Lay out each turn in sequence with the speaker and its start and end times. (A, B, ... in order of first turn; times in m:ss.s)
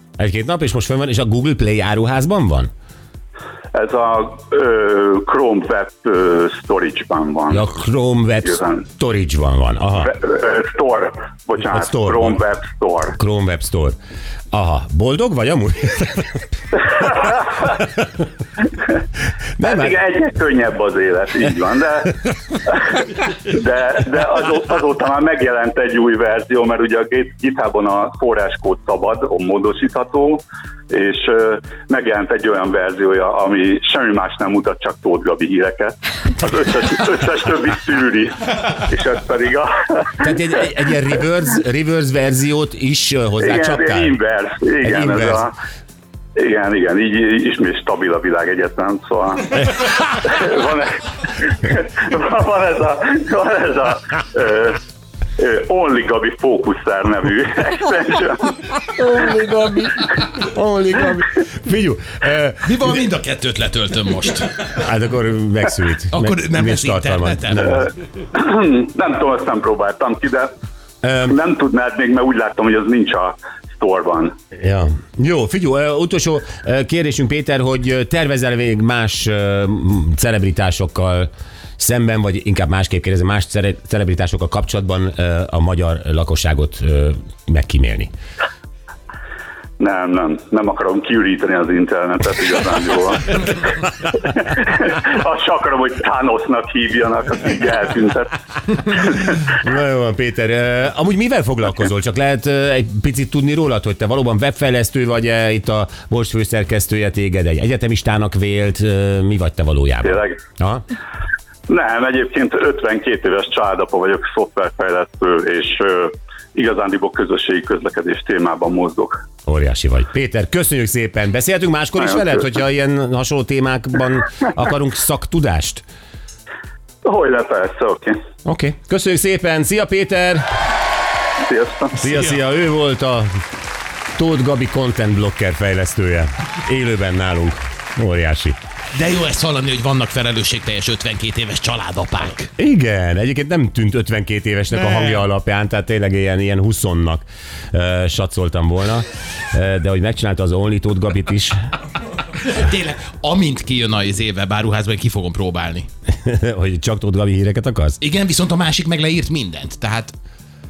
0:00.2-0:02.7 A
0:03.7-0:07.7 B
0:07.5-0:10.1 A
0:08.4-0:08.8 B
0:10.0-0:13.2 B
0:11.7-0:12.4 A
0:13.1-0:14.0 A
0:14.5-0:16.4 A
0:17.7-0:18.0 A
0:19.6-0:20.0 A
0:19.6-0:40.3 B
0:40.2-0:44.2 A
0:43.4-0:45.5 B
0:44.8-0:45.4 A
0:46.4-0:54.8 B
0:55.4-0:58.5 B
0:58.9-1:03.0 A
1:02.6-1:04.7 C
1:04.8-1:07.9 A
1:06.1-1:07.8 C
1:08.3-1:10.5 B
1:11.0-1:11.4 A
1:11.3-1:14.4 B
1:14.6-1:28.1 A
1:29.8-1:38.4 B
1:39.6-1:50.8 A
1:50.0-1:50.4 B
1:51.7-1:59.2 B
1:59.5-2:05.8 A
2:07.0-2:08.2 B
2:08.4-2:10.4 A
2:11.4-2:12.0 B
2:12.0-2:13.3 A
2:12.1-2:12.4 C
2:14.2-2:18.6 A
2:18.9-2:22.5 C
2:22.6-2:31.6 A
2:32.4-2:35.9 C
2:36.1-2:38.0 A
2:38.0-2:40.2 C